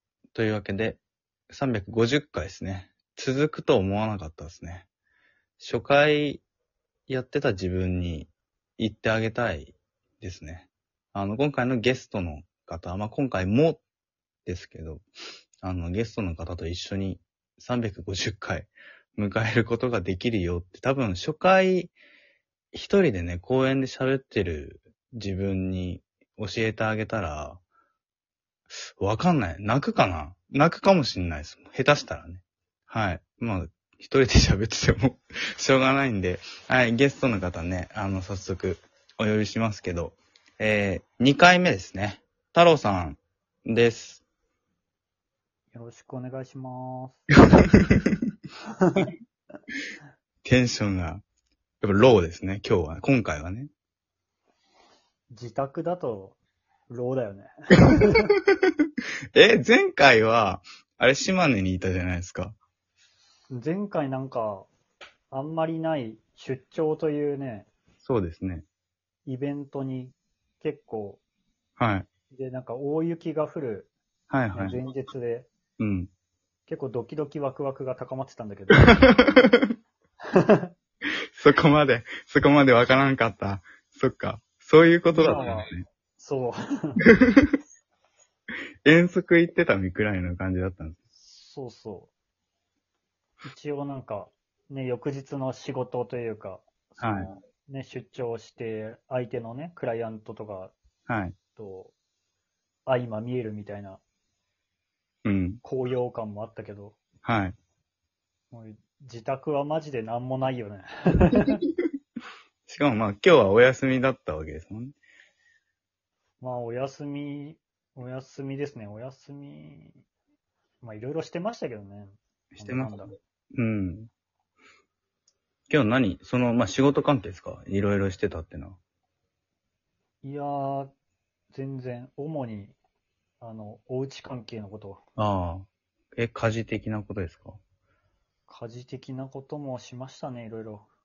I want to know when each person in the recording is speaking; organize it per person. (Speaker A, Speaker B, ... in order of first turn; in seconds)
Speaker A: 0.3-4.9, 5.6-6.4, 7.1-13.8, 14.5-15.1, 15.6-21.9, 22.7-27.6, 29.0-44.2, 50.4-51.2, 51.8-53.7, 59.3-62.6, 68.0-68.7, 71.8-72.1, 74.3-74.8, 75.8-76.1, 78.8-79.7, 81.4-85.8, 87.1-87.6, 88.8-91.0, 97.0-97.3, 101.1-101.3, 105.2-105.6, 107.2-107.6, 112.7-115.0, 122.5-124.1, 125.7-128.8, 135.2-137.6
Speaker B: 45.7-47.2, 48.8-49.1, 55.3-56.4, 56.9-58.3, 63.5-64.7, 65.3-67.7, 69.3-71.2, 72.3-73.9, 74.5-75.5, 76.7-79.0, 80.3-80.7, 85.1-87.0, 91.2-92.1, 93.5-100.7, 101.6-101.9, 102.9-104.0, 105.6-107.0, 108.5-111.6, 116.4-120.0, 120.8-123.1, 130.2-130.9, 131.5-132.8, 133.4-135.0, 138.5-140.9